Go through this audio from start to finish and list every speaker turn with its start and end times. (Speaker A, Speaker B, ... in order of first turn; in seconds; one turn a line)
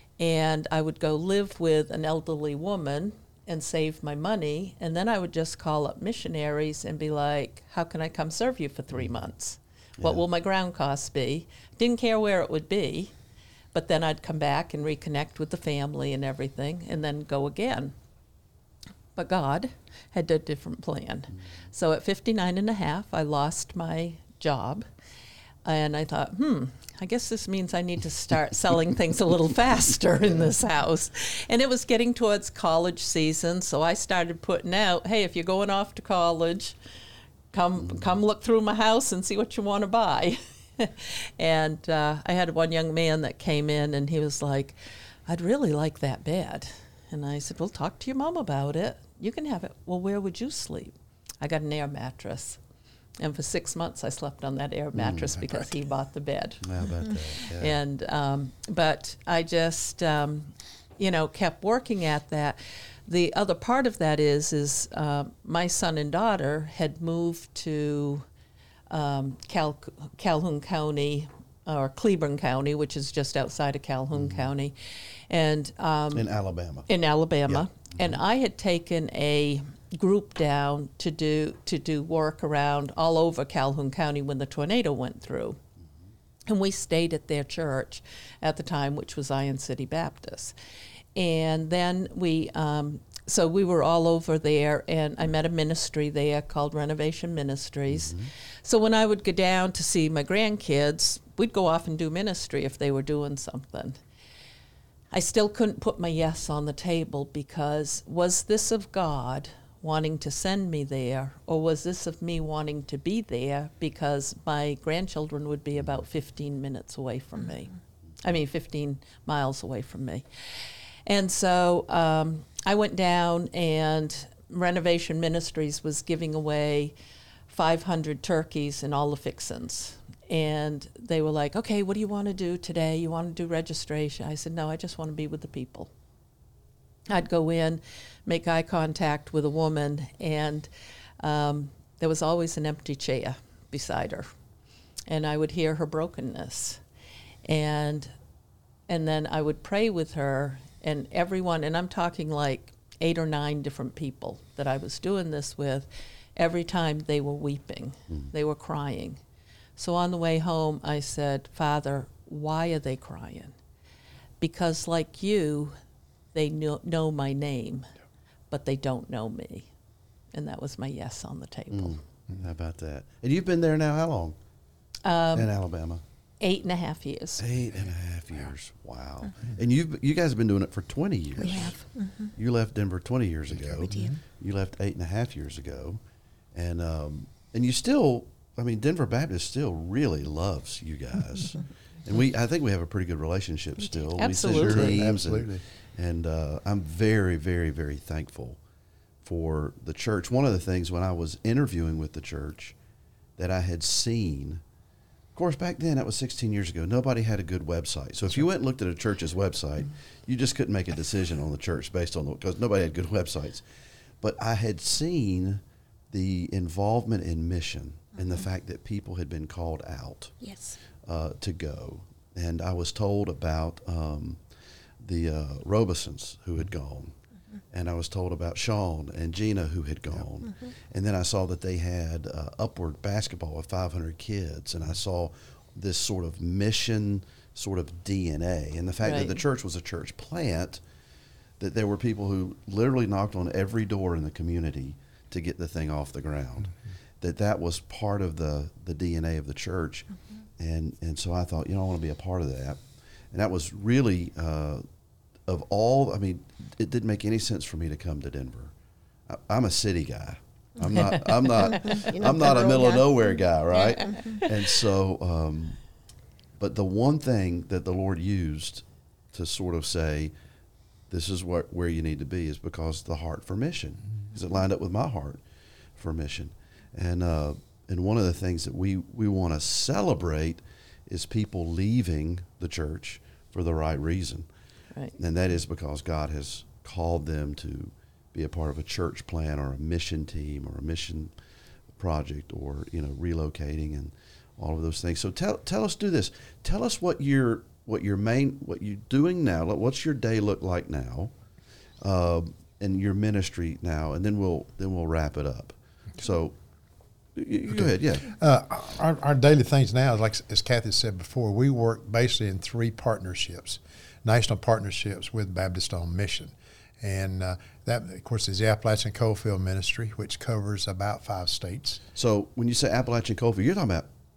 Speaker A: 0.2-13.1
Speaker B: 10.0-10.2
Speaker A: 13.7-17.9
Speaker A: 19.1-24.9
Speaker A: 25.6-36.8
Speaker A: 37.5-52.6
Speaker A: 53.2-56.6
Speaker B: 54.9-55.5
Speaker B: 56.6-57.8
Speaker A: 57.5-68.2
Speaker A: 68.9-74.8
Speaker B: 74.1-74.5
Speaker A: 75.3-76.2
Speaker B: 76.1-76.9
Speaker A: 76.9-85.6
Speaker A: 86.5-90.5
Speaker A: 91.1-104.0
Speaker B: 97.9-98.3
Speaker A: 105.1-120.2
Speaker A: 121.0-126.9
Speaker A: 127.5-135.9
Speaker A: 137.1-140.7
Speaker A: 141.2-144.3
Speaker A: 145.1-146.8
Speaker A: 147.4-148.1
Speaker A: 148.9-159.2
Speaker A: 159.8-163.6
Speaker A: 164.4-165.7
Speaker A: 166.3-167.9
Speaker A: 168.5-169.7
Speaker A: 170.3-172.0
Speaker B: 171.7-174.3
Speaker A: 175.0-175.5
Speaker B: 175.3-176.0
Speaker A: 176.4-177.4
Speaker B: 177.4-181.8
Speaker C: 181.4-182.3
Speaker B: 182.3-186.0
Speaker D: 183.5-184.2
Speaker B: 186.5-198.6
Speaker A: 194.2-195.0
Speaker D: 194.5-195.6
Speaker B: 199.2-202.8
Speaker B: 203.4-204.6
Speaker B: 205.3-213.6
Speaker B: 214.2-220.3
Speaker C: 220.4-220.8
Speaker B: 221.0-224.4
Speaker B: 225.0-227.1
Speaker B: 227.7-240.8
Speaker A: 239.0-239.4
Speaker B: 241.6-252.8
Speaker B: 253.3-254.8
Speaker B: 255.4-258.7
Speaker B: 259.3-265.8
Speaker C: 261.0-264.4
Speaker B: 266.6-270.3
Speaker B: 271.1-275.4
Speaker B: 276.0-284.5
Speaker B: 285.2-291.3
Speaker B: 292.0-301.3
Speaker B: 302.0-306.5
Speaker B: 307.4-308.3
Speaker D: 307.7-322.0
Speaker B: 322.1-324.1